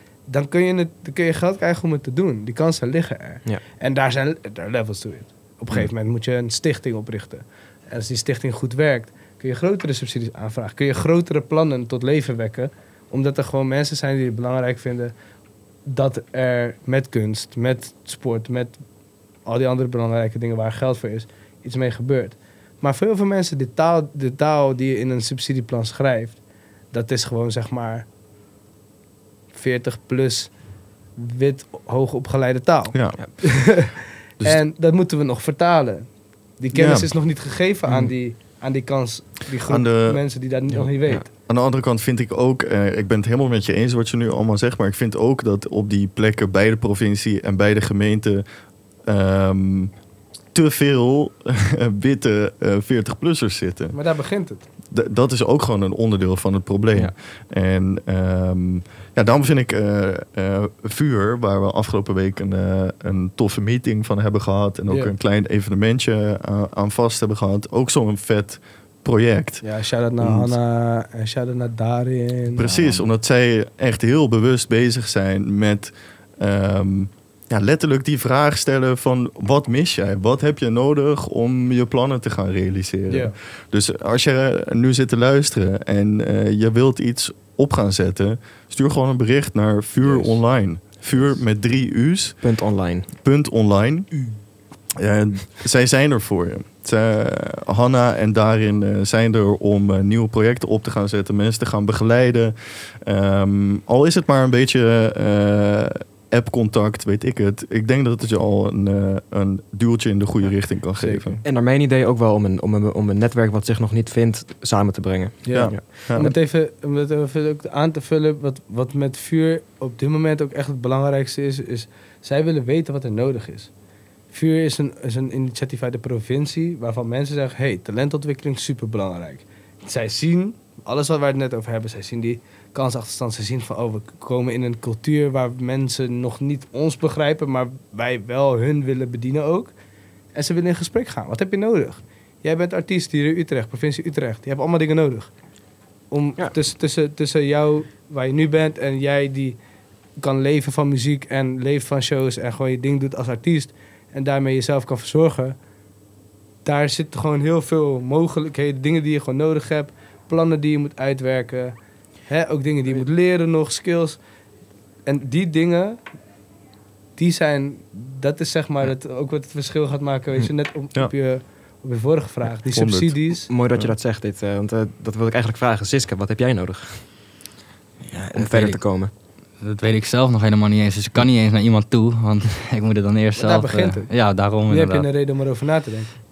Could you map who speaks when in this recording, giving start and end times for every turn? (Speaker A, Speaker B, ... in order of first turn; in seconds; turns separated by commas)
Speaker A: 0.3-15.1, Speaker A: 15.8-18.8, Speaker A: 19.4-26.4, Speaker A: 26.9-28.1, Speaker A: 29.5-30.5, Speaker A: 31.1-41.3, Speaker B: 32.9-33.8, Speaker B: 36.7-37.1, Speaker B: 39.6-40.2, Speaker C: 40.7-41.2, Speaker B: 41.5-48.4, Speaker B: 49.0-49.9, Speaker B: 50.5-54.0, Speaker A: 53.9-54.7, Speaker B: 54.9-69.6, Speaker A: 64.9-65.1, Speaker A: 69.6-72.8, Speaker B: 70.2-70.6, Speaker B: 72.5-92.4, Speaker A: 83.1-83.3, Speaker C: 90.0-90.3, Speaker C: 92.4-93.1, Speaker B: 93.1-94.1, Speaker B: 95.0-111.4, Speaker A: 111.0-111.4, Speaker C: 111.4-115.8, Speaker A: 115.4-123.7, Speaker B: 115.5-116.3, Speaker A: 124.3-139.7, Speaker A: 140.3-145.3, Speaker A: 146.1-149.6, Speaker A: 150.2-155.6, Speaker A: 156.6-161.7, Speaker A: 162.3-164.2, Speaker A: 165.1-166.0, Speaker A: 167.2-173.5, Speaker B: 172.7-173.2, Speaker C: 173.5-177.1, Speaker D: 178.0-178.8, Speaker C: 178.3-179.1, Speaker D: 179.6-185.1, Speaker A: 183.4-184.1, Speaker A: 184.7-186.1